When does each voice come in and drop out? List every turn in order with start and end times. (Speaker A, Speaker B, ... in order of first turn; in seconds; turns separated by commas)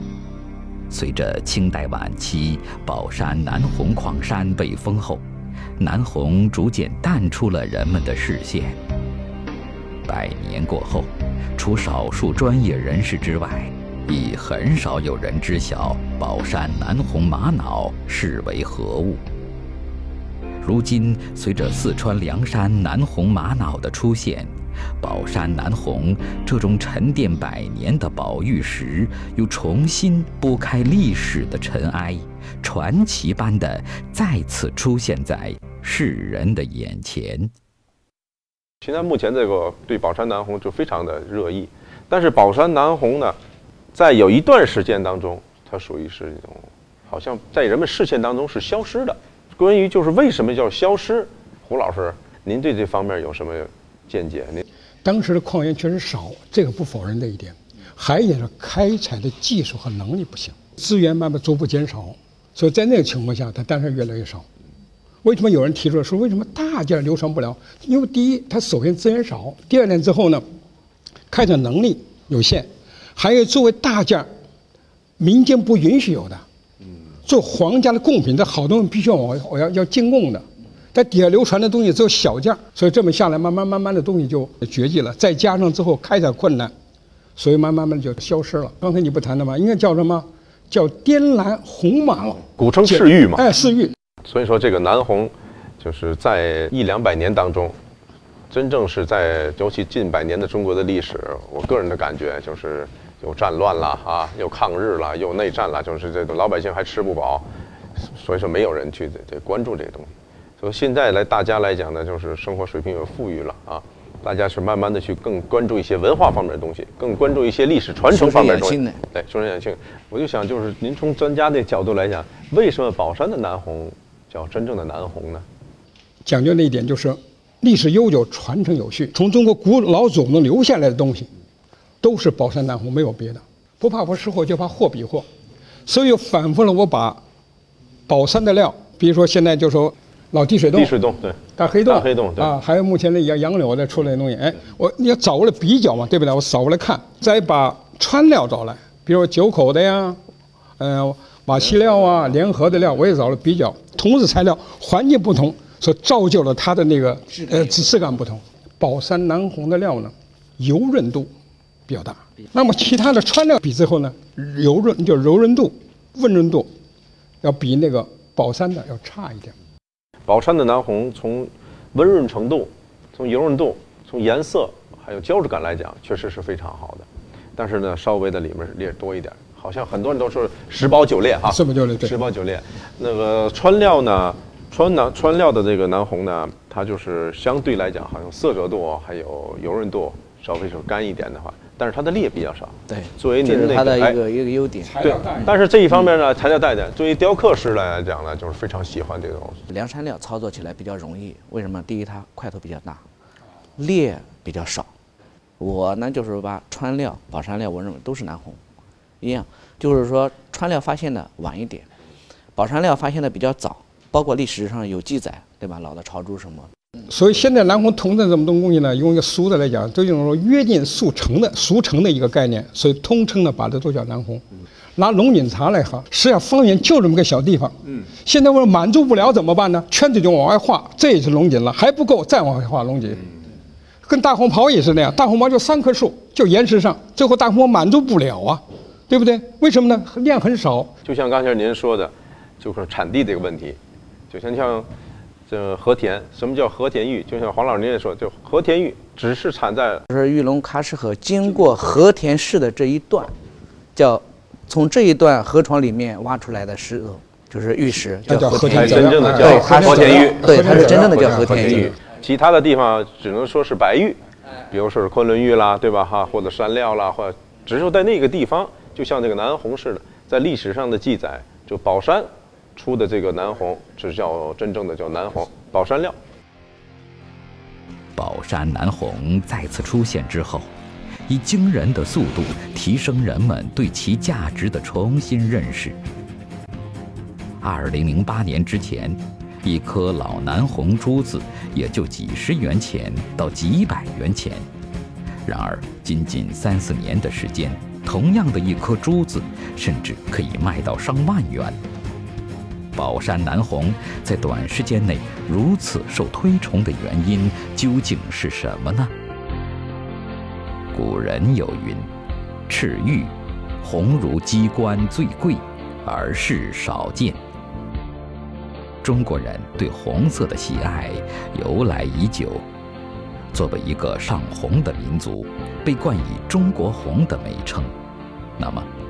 Speaker A: 0.9-5.2, Speaker A: 5.8-8.8, Speaker A: 10.1-19.2, Speaker A: 20.6-37.5, Speaker B: 38.8-43.4, Speaker B: 43.9-54.6, Speaker C: 55.0-64.5, Speaker C: 65.2-70.4, Speaker C: 71.3-74.3, Speaker C: 75.2-76.4, Speaker C: 77.2-86.7, Speaker C: 87.4-93.9, Speaker B: 92.6-93.5, Speaker B: 94.2-97.8, Speaker B: 98.5-107.5, Speaker B: 108.0-125.4, Speaker D: 118.1-119.0, Speaker C: 126.2-131.3, Speaker C: 132.0-135.3, Speaker C: 135.8-137.2, Speaker C: 138.1-140.9, Speaker B: 140.7-142.5, Speaker C: 141.6-150.2, Speaker C: 150.8-161.3, Speaker C: 161.9-166.7, Speaker C: 167.4-169.5, Speaker B: 170.3-194.2, Speaker C: 181.5-182.2, Speaker D: 192.9-195.5, Speaker C: 194.9-195.5, Speaker B: 195.0-199.6, Speaker D: 199.7-203.0, Speaker D: 203.8-204.9, Speaker D: 205.6-208.6, Speaker D: 209.2-211.9, Speaker D: 212.5-216.7, Speaker C: 217.1-224.4, Speaker C: 224.9-233.2, Speaker C: 234.0-240.9, Speaker B: 241.0-243.8, Speaker B: 244.3-244.9, Speaker B: 245.5-250.0, Speaker D: 250.1-253.3, Speaker D: 253.9-261.9, Speaker C: 258.3-261.9, Speaker B: 258.6-276.2, Speaker A: 278.1-280.7, Speaker A: 281.3-286.0, Speaker A: 287.6-294.6, Speaker A: 295.4-301.8, Speaker A: 302.9-309.1, Speaker A: 310.9-312.1, Speaker A: 312.7-317.4, Speaker A: 319.0-322.6, Speaker A: 323.5-327.9, Speaker A: 328.6-328.9